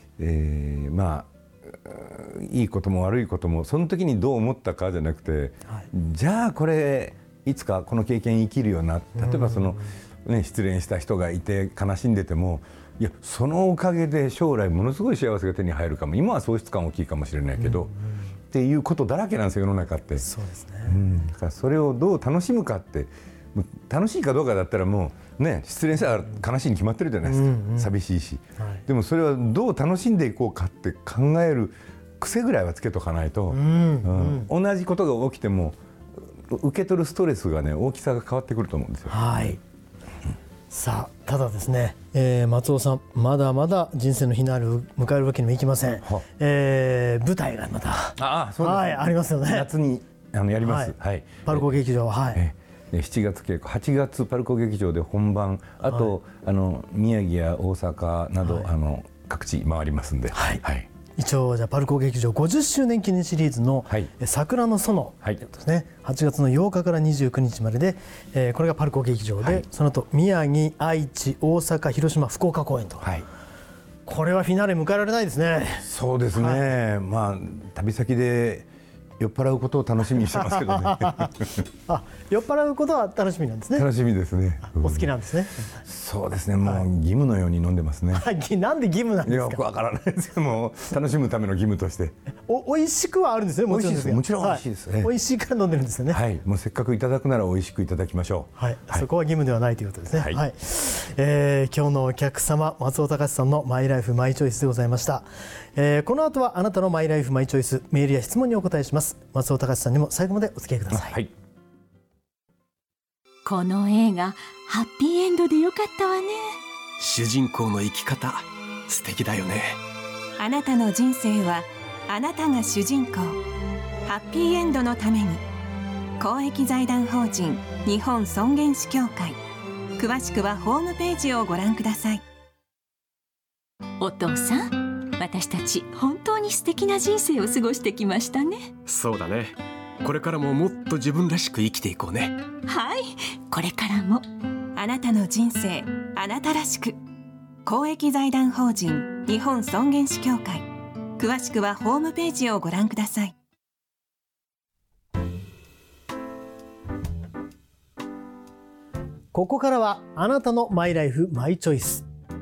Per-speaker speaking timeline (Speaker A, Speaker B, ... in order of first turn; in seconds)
Speaker A: 0.2-17.9, 18.5-20.2, 20.9-35.8, 36.4-39.5, 48.2-51.8, 52.3-60.9, 73.0-73.2, 75.8-81.6, 83.7-85.1, 85.8-88.3, 89.2-92.1, 93.7-95.1, 96.1-99.0, 100.1-100.4, 110.9-111.3
Speaker B: 9.2-9.9, 17.6-18.2, 20.2-21.2, 27.2-27.9, 28.6-28.8, 33.5-34.5, 39.1-39.6, 40.7-49.7, 50.6-50.9, 51.5-52.4, 55.9-56.1, 58.4-58.7, 60.3-60.6, 61.2-73.1, 74.0-76.6, 80.3-81.3, 81.9-83.8, 84.7-85.8, 88.1-89.6, 92.5-96.2, 98.6-111.1, 159.3-162.1
Speaker C: 113.4-116.6, 134.0-138.7, 142.7-144.2
Speaker D: 117.0-119.8, 138.8-142.4
Speaker E: 120.4-123.4, 124.0-125.4, 126.2-129.4, 130.0-132.2, 144.8-147.0, 147.7-150.6, 151.2-153.3